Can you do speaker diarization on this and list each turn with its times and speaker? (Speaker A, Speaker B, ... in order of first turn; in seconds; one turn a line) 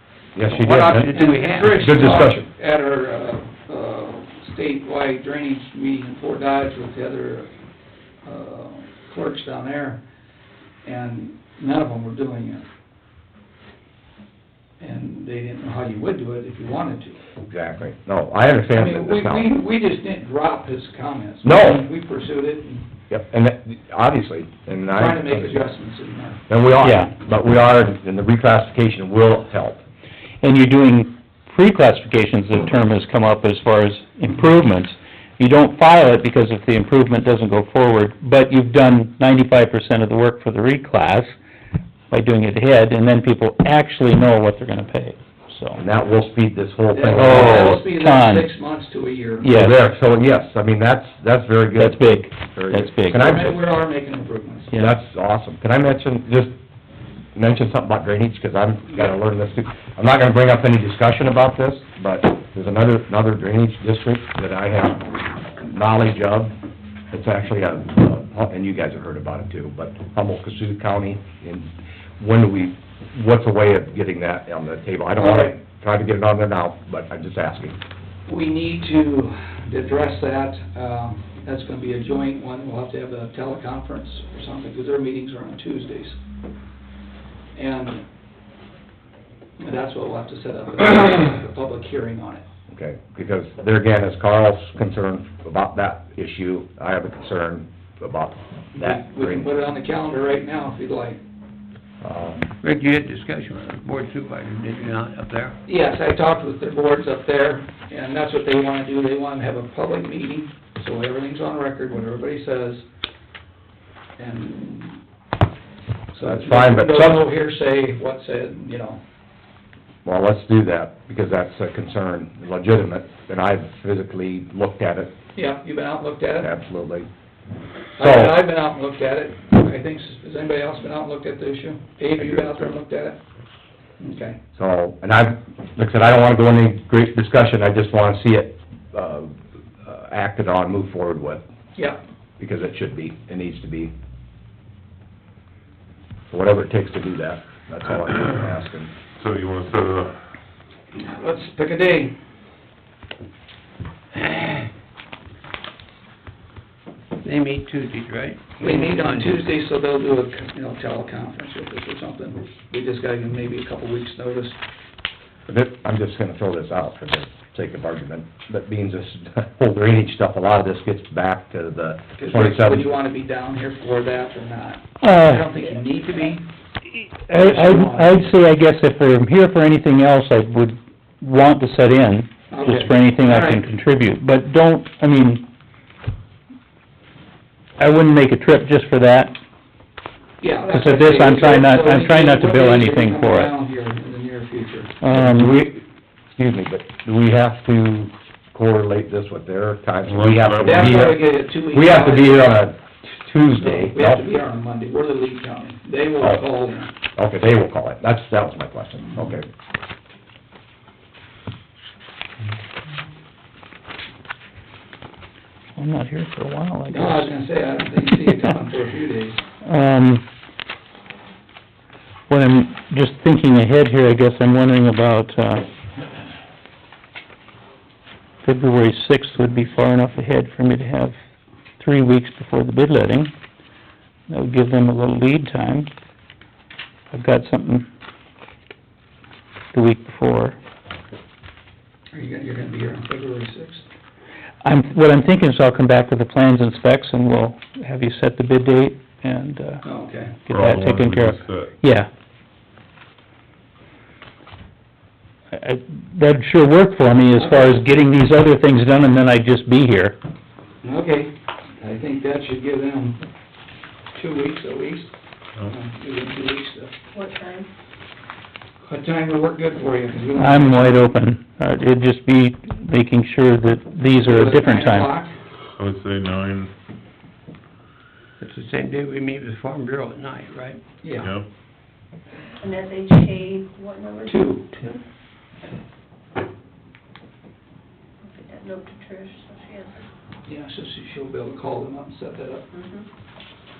Speaker A: 0.3-1.1
Speaker B: 0.5-2.2
Speaker C: 1.1-7.5
Speaker A: 1.6-2.5
Speaker C: 8.2-10.0
Speaker C: 10.8-12.7
Speaker C: 14.8-17.2
Speaker A: 17.4-19.5
Speaker C: 18.8-22.9
Speaker A: 21.4-21.8
Speaker A: 23.1-25.7
Speaker C: 24.9-26.4
Speaker A: 26.5-29.8
Speaker D: 26.8-27.1
Speaker D: 30.4-41.3
Speaker D: 42.1-45.8
Speaker A: 45.8-47.8
Speaker C: 46.9-49.5
Speaker D: 47.1-48.5
Speaker D: 49.4-49.7
Speaker A: 49.5-53.6
Speaker D: 51.8-53.2
Speaker C: 53.1-54.8
Speaker A: 54.7-56.5
Speaker A: 57.4-66.5
Speaker A: 67.1-77.8
Speaker C: 75.2-75.6
Speaker C: 78.3-86.2
Speaker C: 87.5-88.0
Speaker C: 89.6-92.5
Speaker A: 92.7-99.5
Speaker C: 98.7-101.2
Speaker A: 102.0-102.5
Speaker B: 102.6-105.6
Speaker C: 105.7-112.8
Speaker C: 114.2-115.0
Speaker C: 116.1-119.0
Speaker A: 116.2-117.2
Speaker A: 120.0-125.1
Speaker C: 125.3-126.5
Speaker A: 126.4-127.1
Speaker C: 128.0-133.2
Speaker A: 128.0-128.4
Speaker A: 132.2-132.7
Speaker C: 134.0-134.4
Speaker A: 134.6-141.4
Speaker A: 142.4-143.9
Speaker A: 146.3-148.9
Speaker E: 149.2-150.3
Speaker C: 150.9-152.1
Speaker B: 157.2-159.5
Speaker C: 158.6-164.6
Speaker A: 165.5-172.9
Speaker C: 172.2-176.5
Speaker D: 175.0-175.5
Speaker D: 176.9-185.5
Speaker C: 177.3-178.3
Speaker C: 182.5-183.7
Speaker D: 187.8-189.4
Speaker C: 190.4-195.0
Speaker D: 190.7-193.5
Speaker D: 195.0-195.6
Speaker A: 195.1-195.8
Speaker A: 196.3-204.2
Speaker E: 200.1-200.9
Speaker C: 200.6-202.5
Speaker C: 203.6-206.9
Speaker A: 207.2-209.5
Speaker D: 215.8-217.3
Speaker C: 216.9-219.4
Speaker D: 219.6-220.2
Speaker D: 222.3-225.7
Speaker D: 228.4-231.2
Speaker D: 231.8-233.3
Speaker D: 234.3-235.9
Speaker D: 237.1-237.9
Speaker D: 239.7-240.6
Speaker C: 242.1-243.8
Speaker D: 244.6-249.8
Speaker C: 249.8-250.4
Speaker D: 250.5-252.1
Speaker E: 250.5-251.7
Speaker D: 255.5-260.2
Speaker C: 257.4-257.8
Speaker C: 260.8-263.2
Speaker C: 264.1-265.1
Speaker C: 265.7-266.9
Speaker F: 267.1-267.7
Speaker C: 268.8-271.1
Speaker D: 270.4-275.1
Speaker C: 274.2-275.3
Speaker E: 275.8-276.7
Speaker B: 278.4-280.8
Speaker C: 281.0-281.3
Speaker E: 281.2-281.5
Speaker F: 282.6-285.0
Speaker C: 284.3-284.8
Speaker F: 288.3-290.1
Speaker C: 290.5-292.7
Speaker F: 292.7-293.0